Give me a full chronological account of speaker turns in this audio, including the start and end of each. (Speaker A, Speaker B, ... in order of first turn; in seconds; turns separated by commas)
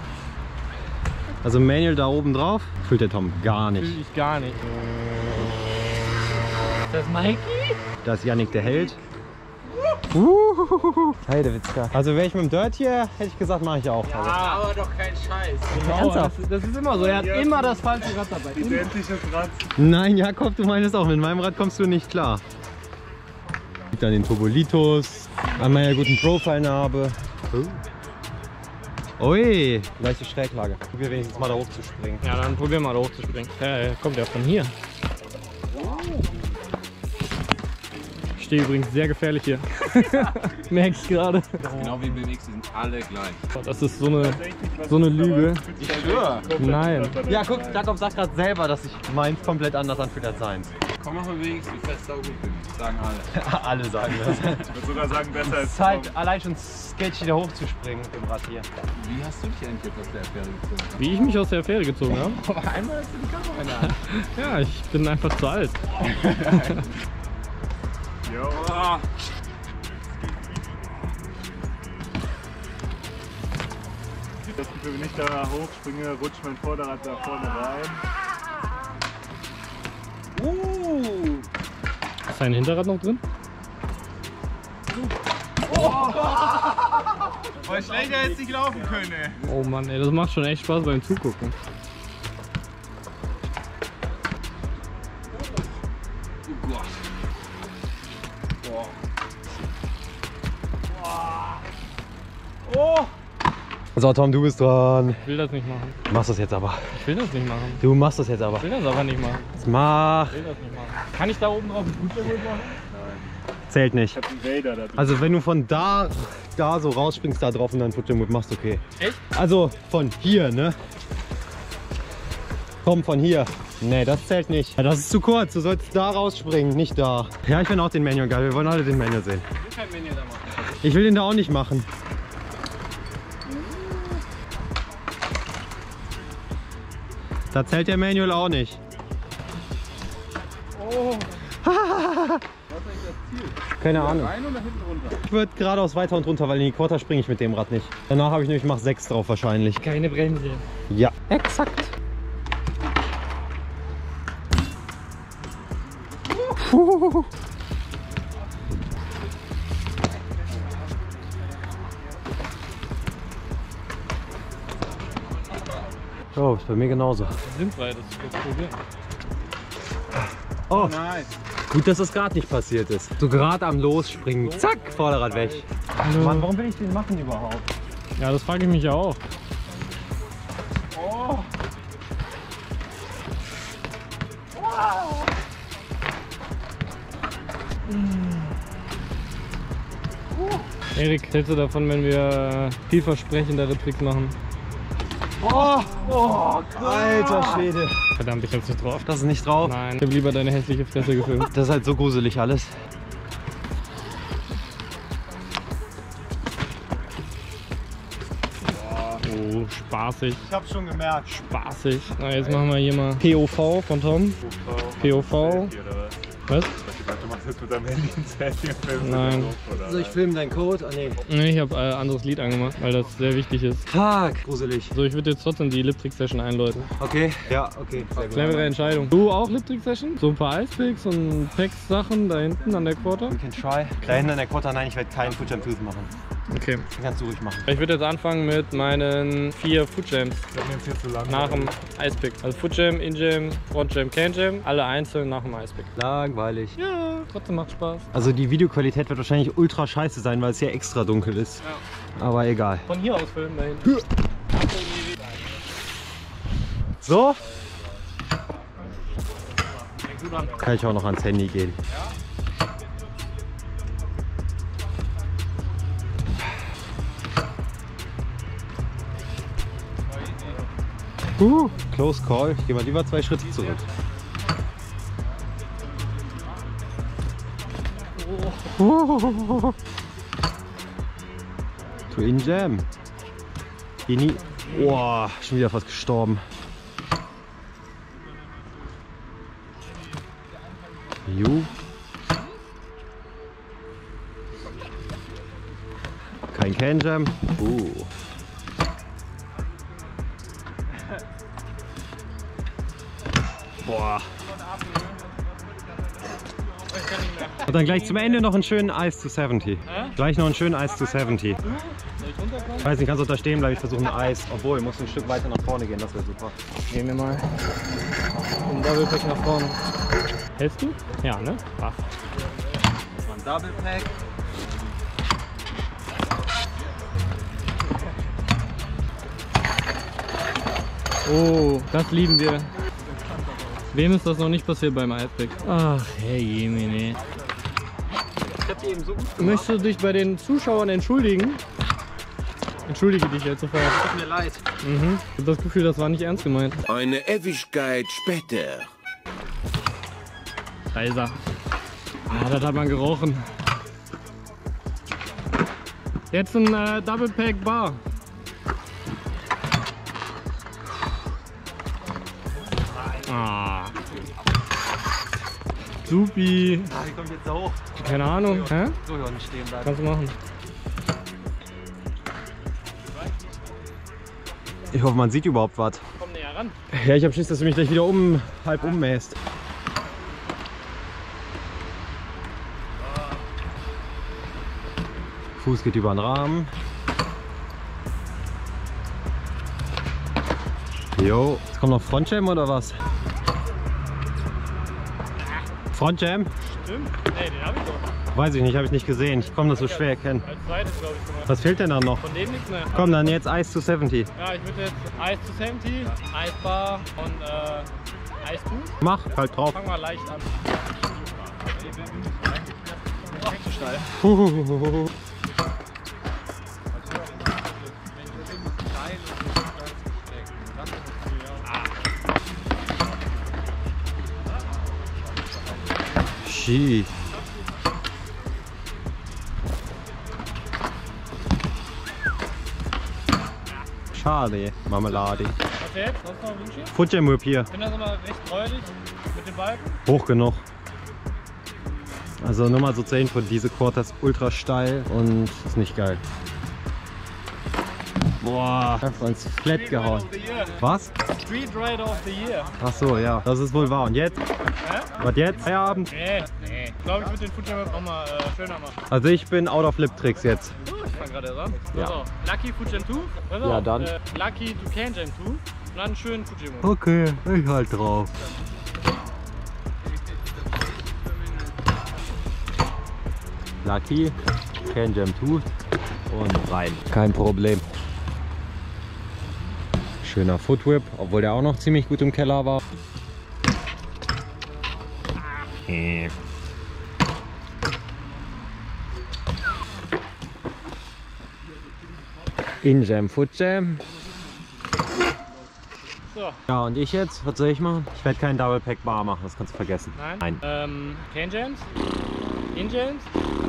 Speaker A: 1.4-4.0, Speaker B: 3.8-4.7, Speaker B: 6.9-7.8, Speaker A: 8.0-9.0, Speaker A: 10.1-14.5, Speaker B: 14.2-14.7, Speaker C: 14.4-15.7, Speaker B: 15.7-18.9, Speaker A: 15.7-16.4, Speaker D: 17.0-17.7, Speaker D: 18.6-19.7, Speaker A: 19.8-22.4, Speaker A: 23.9-27.8, Speaker A: 29.2-32.3, Speaker B: 32.2-34.7, Speaker C: 35.8-36.3, Speaker B: 38.4-41.8, Speaker C: 41.7-43.4, Speaker B: 43.6-45.7, Speaker D: 44.2-47.8, Speaker C: 46.0-46.5, Speaker B: 46.6-47.2, Speaker A: 47.2-50.7, Speaker C: 51.0-53.3, Speaker A: 53.3-58.7, Speaker D: 54.6-56.1, Speaker C: 59.0-61.0, Speaker B: 61.0-62.4, Speaker C: 62.3-63.9, Speaker B: 63.8-65.8, Speaker C: 66.0-66.8, Speaker D: 68.3-68.9, Speaker D: 74.5-78.0, Speaker D: 80.4-81.4, Speaker B: 82.3-83.2, Speaker D: 85.8-86.5, Speaker D: 87.6-88.9, Speaker A: 87.7-88.2, Speaker C: 88.0-89.3, Speaker B: 89.4-91.5, Speaker C: 96.5-96.8, Speaker D: 102.7-103.0, Speaker A: 104.0-105.2, Speaker B: 105.2-106.0, Speaker A: 106.1-106.8, Speaker B: 106.9-107.8, Speaker A: 107.8-108.7, Speaker B: 108.6-109.5, Speaker A: 109.6-110.4, Speaker B: 110.3-112.8, Speaker A: 113.7-114.2, Speaker D: 114.1-115.2, Speaker A: 115.0-120.8, Speaker A: 122.8-129.4, Speaker B: 129.7-130.4, Speaker A: 130.7-131.9, Speaker A: 137.5-138.8, Speaker C: 140.9-141.3, Speaker A: 141.6-142.4, Speaker C: 142.8-145.2, Speaker A: 143.8-144.4, Speaker A: 145.2-149.8, Speaker B: 149.8-150.6, Speaker A: 150.9-151.9, Speaker A: 156.4-157.3, Speaker A: 166.3-167.3, Speaker B: 167.4-168.8, Speaker A: 170.7-171.1, Speaker C: 170.8-171.2, Speaker A: 171.7-177.7, Speaker B: 174.4-176.5, Speaker B: 178.2-179.2, Speaker B: 190.9-194.4, Speaker A: 195.4-198.0, Speaker D: 196.0-197.2, Speaker B: 198.2-199.1, Speaker A: 199.1-199.8, Speaker B: 199.6-201.5, Speaker A: 201.5-202.7, Speaker B: 209.2-210.4, Speaker A: 210.4-211.3, Speaker B: 211.3-214.4, Speaker D: 214.4-216.2, Speaker B: 215.0-215.7, Speaker B: 216.5-216.8, Speaker D: 216.8-220.2, Speaker B: 219.0-219.6, Speaker A: 219.8-221.2, Speaker B: 221.3-223.9, Speaker A: 223.9-225.0, Speaker B: 224.9-226.9, Speaker A: 227.0-228.7, Speaker B: 228.3-233.4, Speaker A: 233.3-236.2, Speaker B: 236.5-236.9, Speaker A: 236.9-237.7, Speaker B: 237.7-240.5, Speaker D: 240.5-241.7, Speaker B: 241.3-245.9, Speaker A: 246.0-246.8, Speaker B: 246.8-248.1, Speaker A: 248.1-251.6, Speaker A: 252.2-252.9, Speaker B: 252.9-254.0, Speaker A: 257.0-257.4, Speaker B: 260.1-260.6, Speaker A: 260.5-261.8, Speaker A: 271.4-273.9, Speaker A: 278.7-279.8, Speaker A: 282.1-282.9, Speaker A: 284.1-286.4, Speaker A: 291.3-291.7, Speaker A: 296.5-298.1, Speaker A: 303.9-304.3, Speaker B: 306.9-308.4, Speaker A: 307.6-311.6, Speaker B: 309.9-310.2, Speaker B: 311.7-312.9, Speaker A: 312.8-316.5, Speaker B: 316.8-317.5, Speaker B: 318.6-319.8, Speaker B: 320.6-322.1, Speaker A: 323.2-324.1, Speaker B: 331.2-332.7, Speaker B: 333.9-337.2, Speaker A: 338.6-339.9, Speaker B: 339.4-341.6, Speaker B: 342.9-344.0, Speaker A: 344.0-344.6, Speaker B: 344.8-346.8, Speaker C: 346.9-348.9, Speaker B: 350.9-351.4, Speaker B: 352.3-353.5, Speaker B: 356.3-358.0, Speaker B: 363.2-363.9, Speaker B: 366.1-366.9, Speaker A: 366.9-370.0, Speaker B: 368.0-369.0, Speaker B: 369.8-370.4, Speaker A: 374.9-376.0, Speaker B: 376.2-376.8, Speaker A: 376.9-379.4, Speaker A: 385.6-386.7, Speaker A: 391.2-393.0, Speaker A: 395.9-396.5, Speaker B: 396.6-398.1, Speaker A: 398.4-400.5, Speaker B: 399.5-401.5, Speaker A: 401.5-402.2, Speaker B: 402.2-403.1, Speaker A: 402.9-404.3, Speaker B: 404.4-407.9, Speaker B: 408.4-409.0, Speaker A: 409.0-409.8, Speaker B: 409.6-410.7, Speaker B: 413.4-414.1, Speaker A: 414.2-415.1, Speaker B: 421.5-421.9, Speaker A: 426.4-427.1, Speaker A: 434.1-435.6, Speaker B: 435.7-436.9, Speaker A: 436.9-437.7, Speaker B: 437.7-440.0, Speaker A: 440.1-440.6, Speaker A: 442.4-446.2, Speaker A: 448.4-451.1, Speaker B: 449.8-450.8, Speaker B: 451.4-452.8, Speaker A: 452.8-454.4, Speaker B: 454.8-455.1, Speaker A: 455.2-456.1, Speaker B: 456.1-459.0, Speaker A: 459.1-460.8, Speaker B: 460.8-466.9, Speaker A: 463.6-464.1, Speaker A: 466.8-468.3, Speaker A: 473.8-475.7, Speaker A: 476.3-477.9, Speaker A: 480.2-482.8, Speaker A: 485.9-486.3, Speaker A: 492.8-494.0, Speaker B: 496.3-496.6, Speaker A: 496.7-500.6, Speaker B: 500.2-501.9, Speaker B: 502.7-503.3